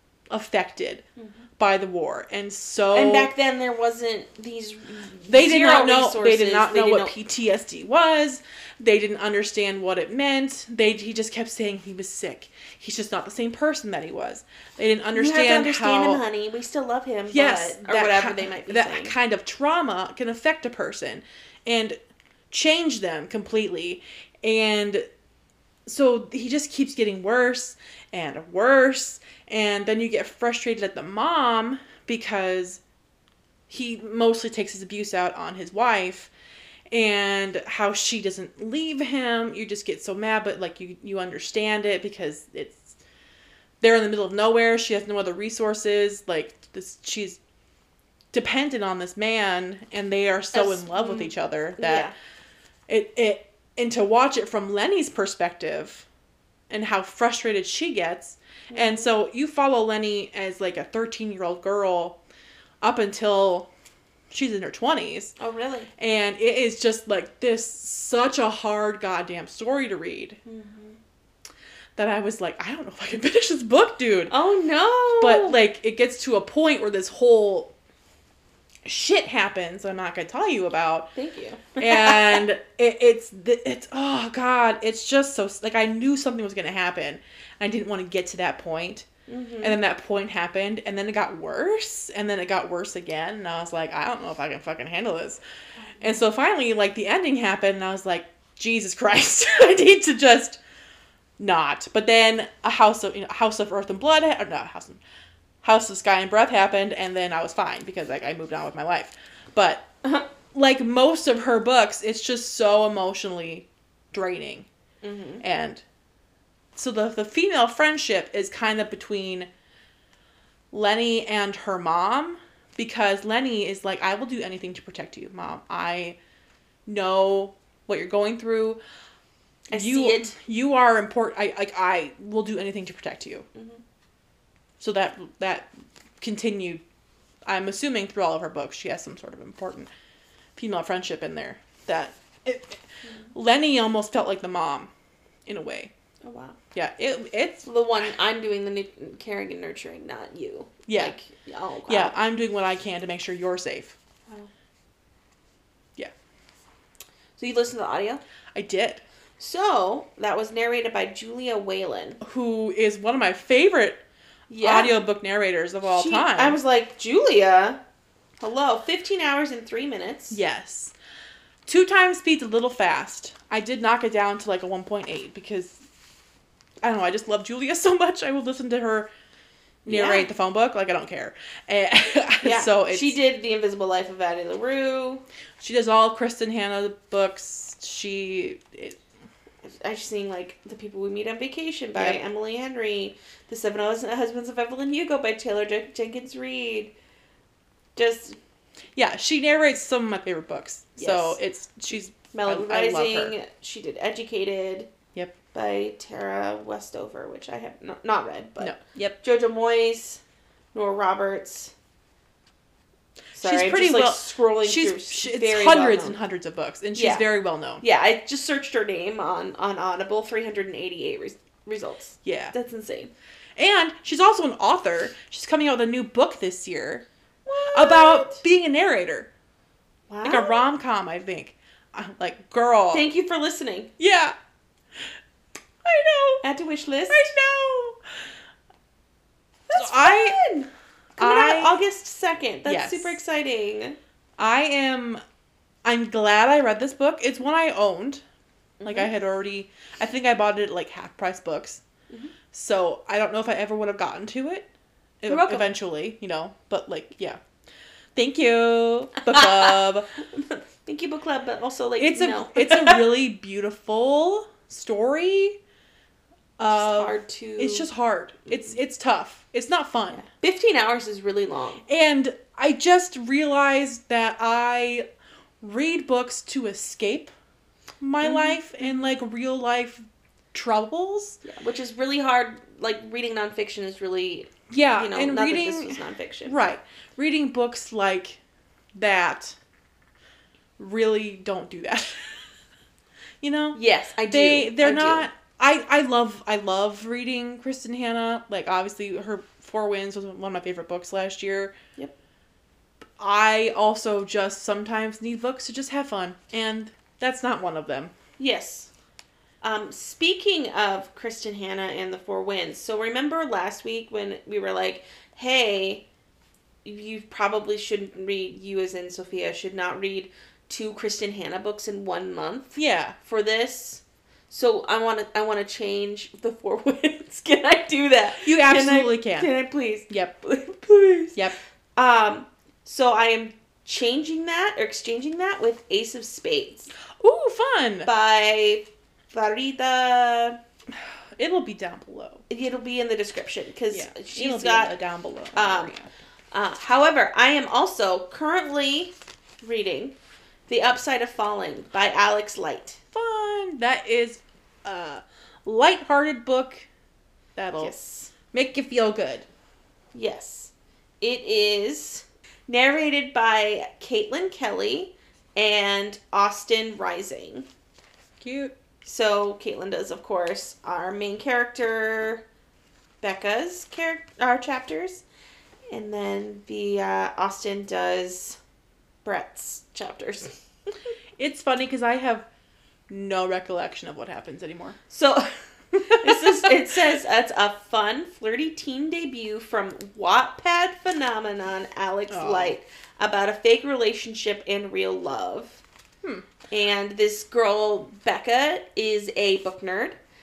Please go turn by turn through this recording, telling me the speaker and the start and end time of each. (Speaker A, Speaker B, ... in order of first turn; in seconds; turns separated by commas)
Speaker A: 0.3-1.0, Speaker A: 1.6-3.3, Speaker B: 2.9-7.2, Speaker A: 5.3-16.2, Speaker B: 15.1-19.1, Speaker A: 17.3-22.0, Speaker A: 22.5-25.1, Speaker A: 25.9-32.8, Speaker A: 33.7-36.3, Speaker A: 36.9-43.0, Speaker A: 43.8-47.4, Speaker A: 48.3-52.1, Speaker B: 50.5-52.1, Speaker A: 52.9-56.1, Speaker A: 56.7-62.2, Speaker B: 58.7-59.1, Speaker A: 62.8-63.7, Speaker A: 64.3-65.3, Speaker B: 65.4-65.9, Speaker A: 66.0-70.4, Speaker B: 70.5-71.0, Speaker A: 72.0-74.3, Speaker B: 74.3-75.6, Speaker A: 75.2-77.7, Speaker A: 78.8-81.1, Speaker B: 81.2-82.5, Speaker A: 81.8-89.1, Speaker B: 89.3-89.8, Speaker A: 89.6-95.4, Speaker B: 95.9-96.2, Speaker A: 96.0-100.6, Speaker A: 101.4-105.0, Speaker A: 105.6-109.8, Speaker A: 110.5-114.7, Speaker B: 115.0-115.4, Speaker A: 115.4-115.8, Speaker A: 116.8-119.5, Speaker A: 120.7-126.2, Speaker A: 126.9-128.8, Speaker B: 129.7-130.3, Speaker A: 129.7-133.5, Speaker B: 133.6-133.8, Speaker A: 134.8-135.7, Speaker A: 136.2-136.8, Speaker A: 137.5-139.9, Speaker A: 140.6-142.8, Speaker A: 143.3-144.9, Speaker A: 145.5-145.9, Speaker B: 146.2-146.6, Speaker A: 146.7-147.7, Speaker B: 147.7-152.1, Speaker A: 150.9-151.2, Speaker A: 151.9-154.0, Speaker B: 157.4-158.2, Speaker A: 158.5-159.0, Speaker B: 159.4-162.2, Speaker A: 162.2-164.0, Speaker B: 164.5-165.0, Speaker A: 164.6-166.6, Speaker B: 165.9-167.8, Speaker B: 168.4-170.4, Speaker A: 170.3-170.9, Speaker A: 171.7-175.8, Speaker A: 176.8-179.1, Speaker A: 179.8-183.2, Speaker B: 179.9-180.3, Speaker B: 182.4-185.2, Speaker A: 185.6-189.0, Speaker B: 189.6-196.9, Speaker A: 191.9-192.2, Speaker B: 198.0-198.4, Speaker A: 199.0-203.4, Speaker B: 201.0-201.4, Speaker B: 202.3-204.9, Speaker B: 205.5-210.2, Speaker A: 208.6-209.2, Speaker B: 210.7-211.7, Speaker B: 213.3-216.2, Speaker A: 213.4-217.8, Speaker B: 216.9-217.2, Speaker B: 217.8-223.1, Speaker A: 222.2-222.6, Speaker A: 223.6-227.1, Speaker B: 227.5-228.4, Speaker A: 227.7-229.3, Speaker B: 230.1-230.6, Speaker A: 230.2-233.1, Speaker B: 232.9-233.9, Speaker A: 234.0-234.3, Speaker A: 235.8-236.4, Speaker B: 236.4-237.3, Speaker A: 237.1-238.0, Speaker B: 239.7-244.0, Speaker A: 239.8-240.4, Speaker A: 241.2-241.8, Speaker A: 242.7-243.2, Speaker A: 244.4-245.2, Speaker A: 245.8-248.2, Speaker B: 248.8-249.1, Speaker A: 248.8-251.8, Speaker A: 252.5-254.7, Speaker A: 255.2-257.4, Speaker B: 255.3-255.7, Speaker A: 258.1-260.1, Speaker B: 259.2-263.1, Speaker A: 262.0-265.6, Speaker A: 266.6-270.2, Speaker B: 266.7-267.9, Speaker B: 268.5-268.7, Speaker B: 270.1-271.8, Speaker A: 271.9-275.1, Speaker A: 275.6-277.3, Speaker A: 278.0-281.4, Speaker B: 278.2-279.1, Speaker B: 281.4-286.6, Speaker A: 284.7-288.4, Speaker A: 288.9-289.6, Speaker A: 290.8-292.4, Speaker A: 293.4-293.8, Speaker B: 293.7-295.3, Speaker A: 294.3-301.7, Speaker A: 303.2-308.1, Speaker B: 308.4-308.9, Speaker B: 309.6-316.1, Speaker B: 316.9-331.4, Speaker A: 322.8-323.2, Speaker A: 328.4-329.5, Speaker A: 330.1-330.3, Speaker B: 332.0-336.9, Speaker A: 337.2-338.1, Speaker B: 338.1-340.6, Speaker A: 340.9-342.4, Speaker B: 342.5-344.9, Speaker A: 343.9-346.1, Speaker B: 345.6-345.9, Speaker B: 346.5-350.2, Speaker B: 350.7-353.0, Speaker A: 353.1-356.9, Speaker A: 357.6-357.9, Speaker B: 357.8-358.3, Speaker A: 358.5-359.5, Speaker B: 360.1-367.7, Speaker A: 368.4-368.7, Speaker B: 369.1-372.4, Speaker B: 373.2-375.2, Speaker B: 375.9-378.6, Speaker B: 379.2-380.9, Speaker A: 381.4-382.5, Speaker A: 383.1-385.0, Speaker B: 385.1-395.8, Speaker A: 386.0-386.8, Speaker A: 392.3-392.8, Speaker B: 396.7-400.2